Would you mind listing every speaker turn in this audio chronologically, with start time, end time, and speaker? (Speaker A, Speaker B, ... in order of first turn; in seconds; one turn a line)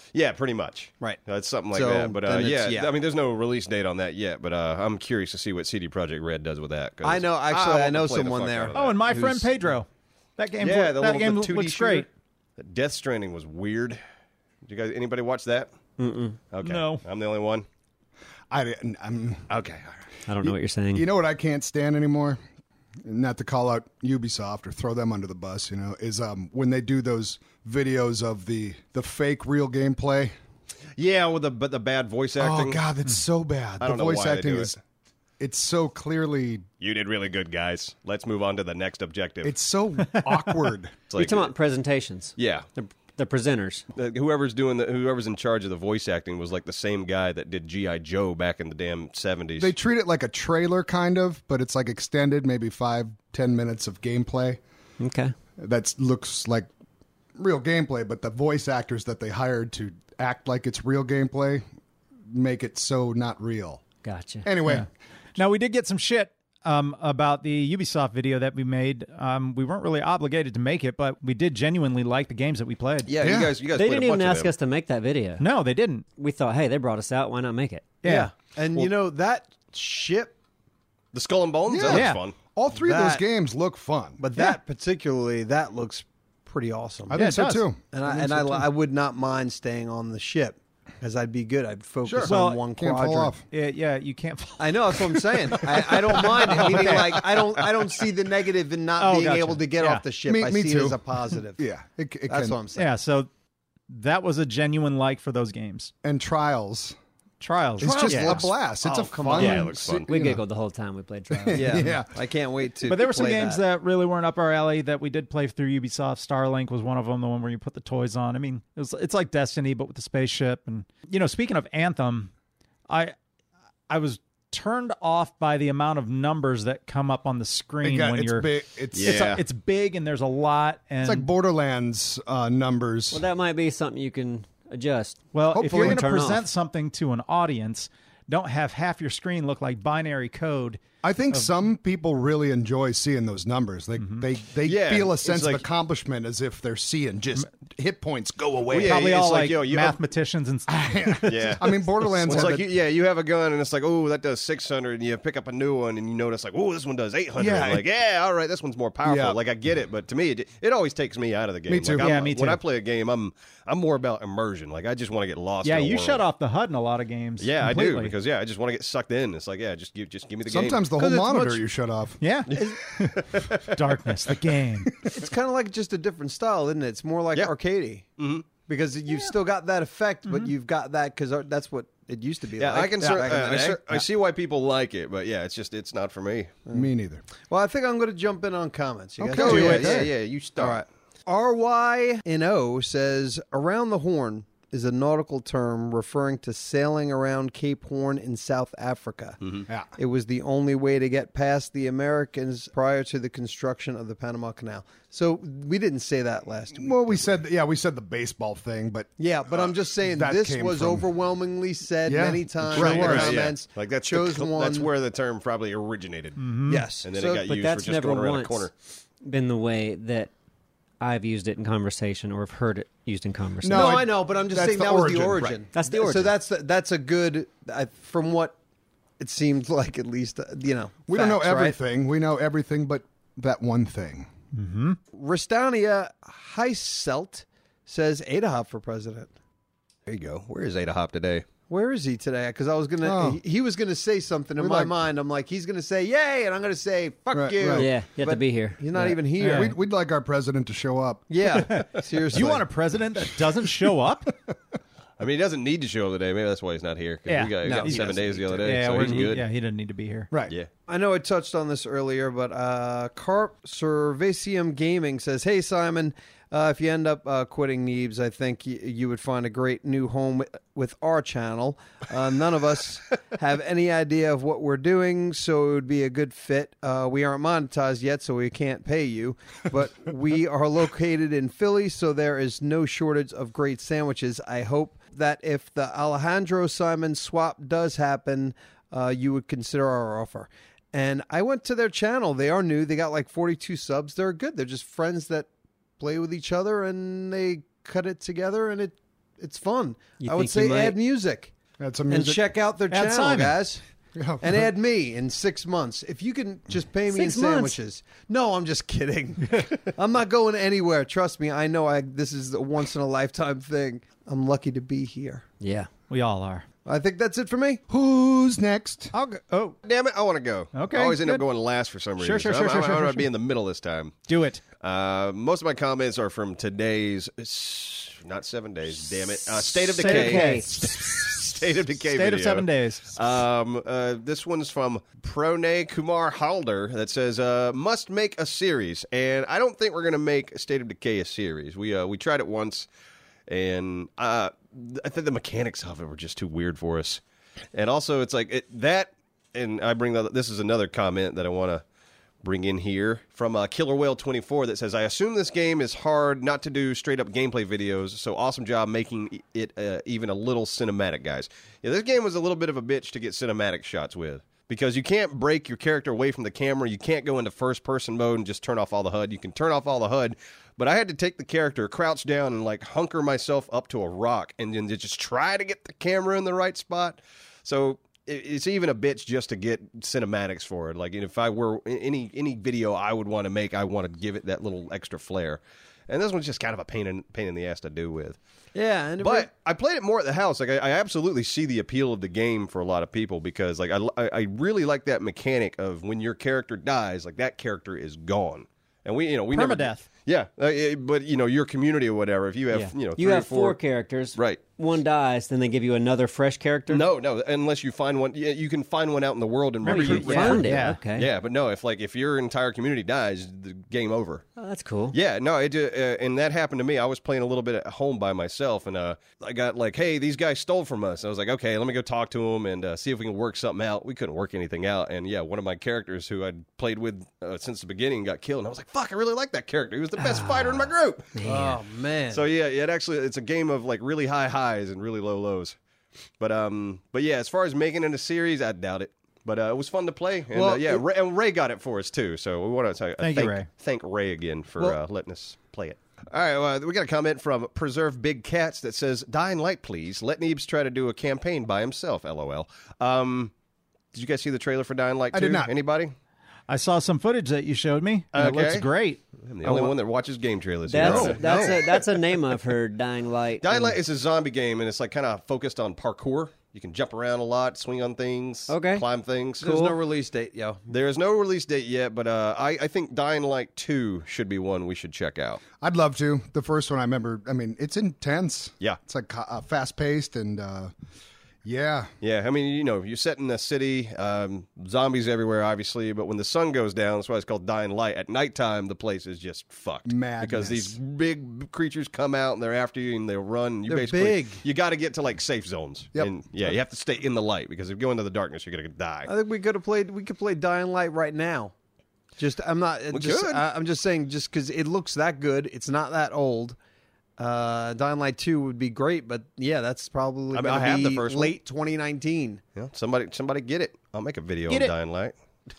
Speaker A: 0.1-9.0
Speaker B: 1.7-2.9
Speaker B: 7.0-9.5
Speaker C: 8.7-12.1
Speaker A: 10.6-12.1
Speaker A: 12.6-14.0
Speaker A: 14.6-15.7
Speaker D: 16.0-16.4
Speaker A: 16.5-17.6
Speaker C: 16.6-17.0
Speaker E: 18.5-19.5
Speaker A: 19.5-20.0
Speaker D: 20.3-21.1
Speaker E: 20.9-22.4
Speaker E: 23.0-30.3
Speaker A: 31.0-32.9
Speaker E: 32.4-34.8
Speaker A: 33.8-34.7
Speaker E: 35.4-36.6
Speaker A: 36.8-39.6
Speaker E: 39.4-40.9
Speaker C: 40.0-40.7
Speaker A: 41.1-41.5
Speaker D: 41.1-43.8
Speaker A: 42.4-42.7
Speaker A: 43.9-49.7
Speaker E: 49.6-54.6
Speaker D: 55.0-55.3
Speaker E: 55.6-56.7
Speaker E: 57.4-61.6
Speaker E: 62.3-63.8
Speaker D: 64.0-64.5
Speaker E: 64.4-64.8
Speaker C: 64.6-73.1
Speaker A: 73.1-74.5
Speaker E: 73.2-73.5
Speaker D: 73.7-75.5
Speaker C: 75.4-76.0
Speaker D: 76.2-77.9
Speaker B: 78.0-80.3
Speaker C: 78.0-78.3
Speaker A: 81.1-82.3
Speaker E: 81.7-84.2
Speaker C: 81.9-82.2
Speaker B: 82.8-83.2
Speaker B: 84.2-87.2
Speaker E: 87.1-88.6
Speaker C: 87.1-87.7
Speaker B: 87.8-93.3
Speaker E: 92.0-93.4
Speaker C: 92.2-92.6
Speaker C: 93.5-97.8
Speaker B: 94.6-101.6
Speaker E: 96.3-97.0
Speaker C: 99.0-100.0
Speaker E: 100.2-102.5
Speaker B: 102.3-102.9
Speaker C: 102.7-103.3
Speaker C: 103.9-105.9
Speaker E: 106.0-107.0
Speaker C: 107.4-108.5
Speaker E: 107.8-110.4
Speaker B: 107.8-109.7
Speaker A: 108.8-110.1
Speaker D: 110.0-111.9
Speaker E: 111.3-112.1
Speaker B: 111.5-113.6
Speaker C: 112.8-122.3
Speaker C: 122.9-123.1
Speaker C: 123.9-131.3
Speaker E: 127.8-129.4
Speaker A: 128.9-129.4
Speaker E: 131.0-133.2
Speaker D: 133.1-136.4
Speaker C: 135.3-140.8
Speaker E: 135.5-136.0
Speaker E: 141.0-149.0
Speaker A: 144.6-145.7
Speaker A: 148.7-150.0
Speaker C: 148.7-152.4
Speaker E: 150.7-152.7
Speaker A: 151.2-166.2
Speaker E: 157.4-157.8
Speaker E: 159.0-159.4
Speaker E: 161.7-162.1
Speaker C: 161.9-162.6
Speaker C: 165.6-168.1
Speaker A: 167.4-170.9
Speaker E: 170.5-172.2
Speaker B: 171.0-171.6
Speaker C: 172.2-175.1
Speaker A: 172.5-173.8
Speaker B: 175.0-178.1
Speaker A: 178.2-178.5
Speaker B: 178.6-184.0
Speaker A: 182.6-186.5
Speaker E: 186.7-187.2
Speaker B: 187.4-207.1
Speaker E: 189.2-190.1
Speaker A: 189.3-190.8
Speaker C: 189.4-189.8
Speaker E: 199.7-199.9
Speaker E: 206.7-211.1
Speaker B: 209.2-214.9
Speaker E: 212.0-213.5
Speaker A: 212.7-216.5
Speaker C: 216.4-216.9
Speaker B: 216.7-217.4
Speaker A: 217.0-218.7
Speaker D: 217.2-218.7
Speaker D: 219.2-220.3
Speaker D: 221.0-224.1
Speaker E: 223.6-225.5
Speaker B: 223.7-228.6
Speaker D: 225.7-226.3
Speaker B: 229.2-231.8
Speaker E: 231.1-234.3
Speaker C: 234.5-235.0
Speaker B: 235.1-239.3
Speaker A: 240.1-241.4
Speaker B: 241.7-249.7
Speaker E: 243.0-243.4
Speaker E: 244.6-244.9
Speaker E: 247.3-247.9
Speaker D: 247.7-248.8
Speaker C: 248.9-249.8
Speaker E: 249.4-251.3
Speaker B: 251.3-252.7
Speaker C: 251.5-254.3
Speaker A: 255.2-259.4
Speaker C: 257.3-258.1
Speaker B: 257.6-259.3
Speaker C: 258.6-260.3
Speaker B: 260.9-295.5
Speaker B: 296.0-301.5
Speaker D: 300.2-301.0
Speaker E: 301.8-302.4
Speaker B: 302.1-303.8
Speaker C: 302.9-303.6
Speaker E: 304.1-304.7
Speaker B: 304.4-315.4
Speaker D: 307.1-307.8
Speaker D: 315.6-315.9
Speaker C: 316.1-316.6
Speaker B: 316.8-317.8
Speaker E: 317.9-319.1
Speaker C: 319.1-319.8
Speaker A: 319.8-324.3
Speaker C: 320.7-321.4
Speaker C: 322.2-323.3
Speaker C: 324.3-324.6
Speaker A: 324.8-342.9
Speaker C: 329.9-331.4
Speaker D: 330.0-330.7
Speaker C: 332.0-333.2
Speaker A: 343.5-347.2
Speaker A: 347.7-351.8
Speaker A: 352.4-388.4
Speaker B: 388.7-389.5
Speaker A: 389.2-403.8
Speaker C: 399.5-400.1
Speaker D: 402.7-407.0
Speaker A: 404.3-404.6
Speaker A: 406.9-414.4
Speaker C: 409.8-411.0
Speaker D: 409.9-411.3
Speaker D: 414.6-415.2
Speaker A: 415.1-431.3
Speaker D: 430.2-431.8
Speaker B: 431.4-432.4
Speaker A: 432.3-435.8
Speaker A: 436.4-453.5
Speaker B: 440.5-441.0
Speaker C: 443.2-443.7
Speaker A: 454.1-456.1
Speaker E: 455.3-455.7
Speaker C: 456.7-459.9
Speaker A: 458.3-458.9
Speaker A: 459.4-462.1
Speaker D: 460.9-464.0
Speaker B: 461.0-461.8
Speaker A: 463.6-469.9
Speaker D: 468.7-469.1
Speaker B: 469.6-470.8
Speaker A: 470.9-475.6
Speaker E: 475.8-480.9
Speaker E: 481.6-482.1
Speaker A: 482.2-499.3
Speaker E: 490.1-491.0
Speaker B: 493.9-494.6
Speaker B: 499.3-501.7
Speaker B: 502.4-506.8
Speaker A: 503.1-503.6
Speaker B: 507.4-512.6
Speaker A: 510.5-511.5
Speaker A: 512.7-515.3
Speaker C: 514.7-514.9